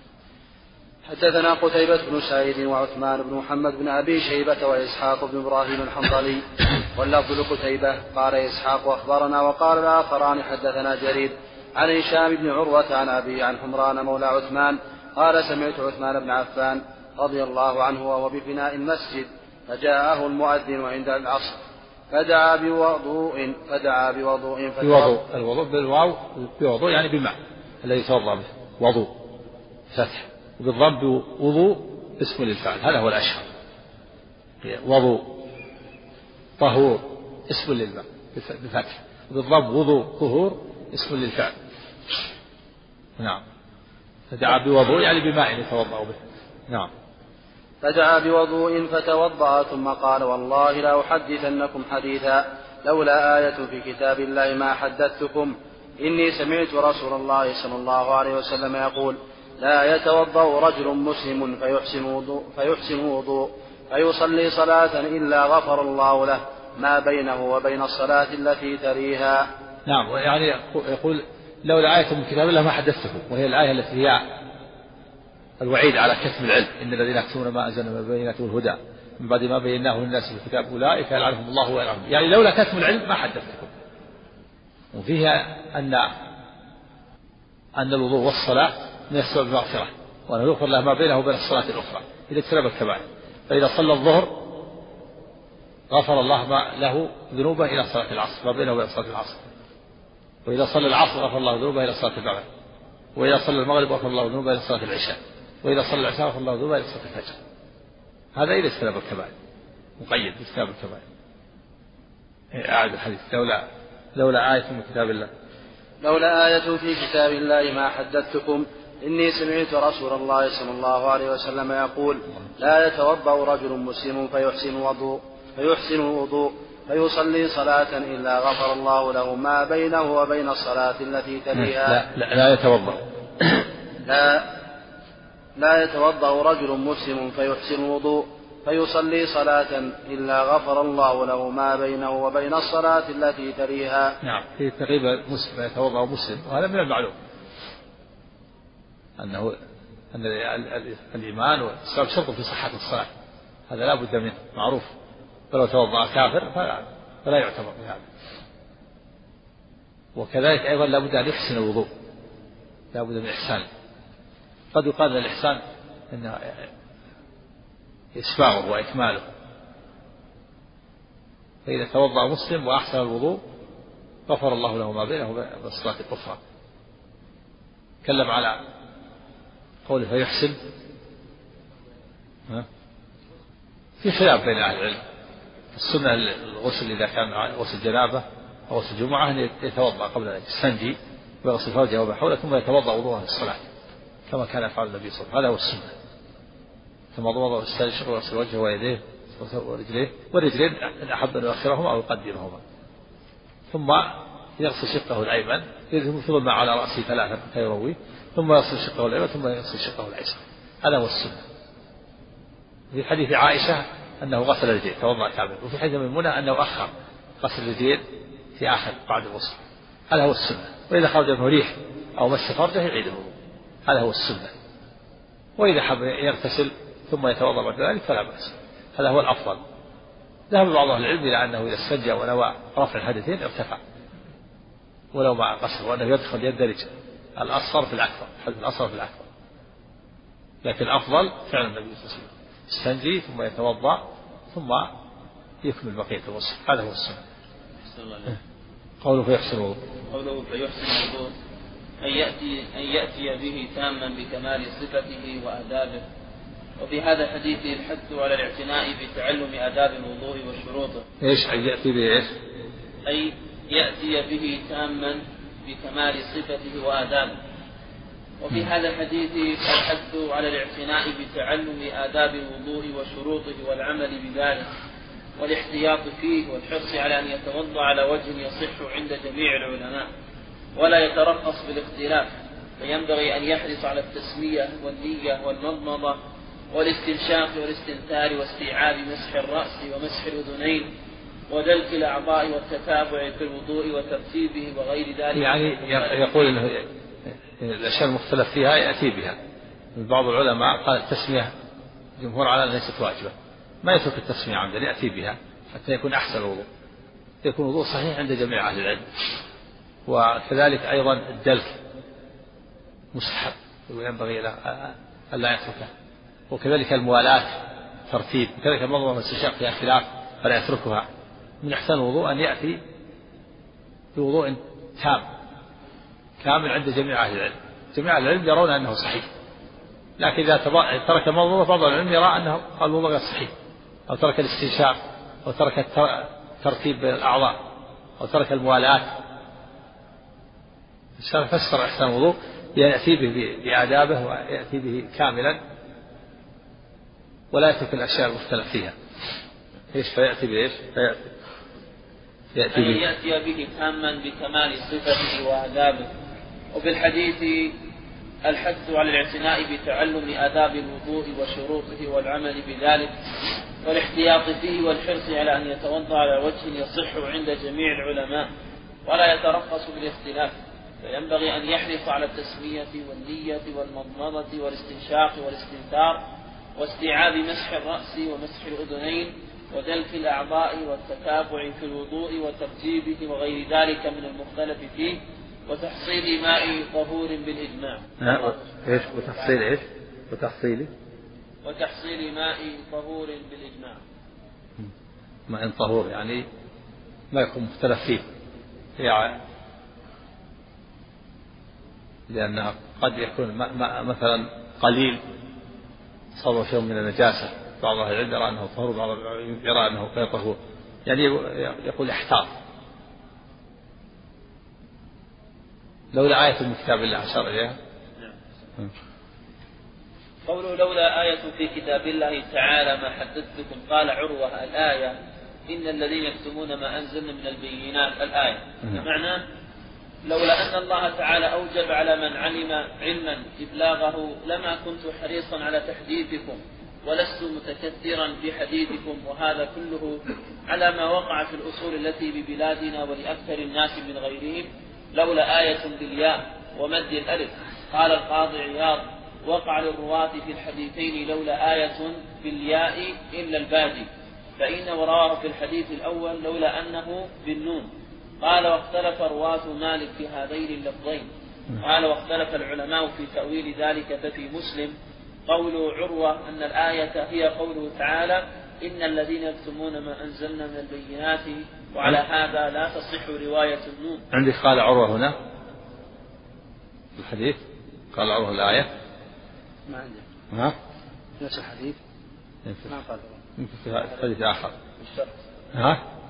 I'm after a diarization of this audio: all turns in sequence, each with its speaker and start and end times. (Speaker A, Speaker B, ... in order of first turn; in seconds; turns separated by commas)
Speaker A: 1.1-21.6, Speaker A: 22.1-25.2, Speaker B: 24.8-29.2, Speaker B: 29.9-33.5, Speaker B: 34.6-35.4, Speaker B: 36.6-41.5, Speaker B: 44.3-46.2, Speaker A: 47.8-69.5, Speaker B: 69.9-74.2, Speaker B: 75.6-83.7, Speaker B: 84.9-86.1, Speaker B: 87.8-94.5, Speaker B: 95.9-99.4, Speaker B: 100.5-102.5, Speaker B: 103.2-107.4, Speaker B: 108.3-109.3, Speaker B: 110.0-111.0, Speaker B: 112.5-115.3, Speaker A: 116.0-132.0, Speaker B: 131.6-133.6, Speaker A: 134.1-134.5, Speaker A: 135.6-144.2, Speaker B: 144.2-147.2, Speaker B: 149.2-149.6, Speaker B: 150.1-153.1, Speaker B: 153.7-154.9, Speaker B: 155.5-158.1, Speaker B: 160.2-161.9, Speaker B: 162.9-163.7, Speaker B: 164.7-166.7, Speaker B: 168.2-169.2, Speaker B: 171.7-173.4, Speaker B: 174.3-176.4, Speaker B: 178.0-178.6, Speaker B: 179.9-180.6, Speaker B: 184.0-185.0, Speaker B: 185.7-193.6, Speaker B: 194.3-195.9, Speaker B: 197.2-202.6, Speaker B: 203.7-211.4, Speaker B: 212.9-216.9, Speaker B: 217.4-218.0, Speaker B: 218.6-219.6, Speaker B: 220.1-223.3, Speaker B: 223.9-224.5, Speaker B: 225.6-229.6, Speaker B: 230.5-233.8, Speaker B: 235.1-239.3, Speaker B: 240.6-244.9, Speaker B: 245.6-247.2, Speaker C: 247.8-248.4, Speaker B: 249.0-249.8, Speaker C: 250.1-251.3, Speaker C: 252.0-256.1, Speaker C: 256.8-261.1, Speaker B: 261.2-262.3, Speaker C: 263.1-267.4, Speaker C: 268.4-274.7, Speaker C: 275.4-280.1, Speaker C: 280.8-286.2, Speaker C: 286.7-290.9, Speaker C: 291.5-296.6, Speaker B: 295.4-299.4, Speaker B: 299.9-301.5, Speaker B: 302.2-306.7, Speaker B: 307.4-309.1, Speaker B: 310.1-311.8, Speaker B: 313.1-315.9, Speaker B: 316.5-321.1, Speaker B: 321.6-322.8, Speaker B: 324.2-325.2, Speaker B: 326.4-329.3, Speaker B: 330.2-333.5, Speaker B: 334.1-337.6, Speaker B: 338.2-339.1, Speaker B: 341.2-345.6, Speaker B: 347.5-348.9, Speaker B: 349.9-351.3, Speaker B: 352.6-353.0, Speaker C: 352.7-356.1, Speaker C: 356.7-357.8, Speaker C: 358.4-363.2, Speaker C: 363.8-368.5, Speaker C: 369.1-376.2, Speaker C: 376.8-389.6, Speaker B: 388.2-390.9, Speaker C: 391.6-394.0, Speaker B: 395.5-396.4, Speaker B: 397.3-398.2, Speaker B: 399.0-399.4, Speaker B: 402.3-405.2, Speaker B: 406.4-412.5, Speaker B: 416.1-417.8, Speaker C: 420.4-429.4, Speaker C: 430.2-461.3, Speaker C: 461.8-465.0, Speaker C: 465.5-474.3, Speaker B: 474.3-475.4, Speaker B: 477.2-477.6, Speaker B: 478.1-478.9, Speaker A: 479.9-480.2, Speaker A: 481.4-482.0, Speaker A: 482.9-483.4, Speaker B: 483.6-484.8, Speaker C: 485.0-485.4, Speaker B: 485.7-486.0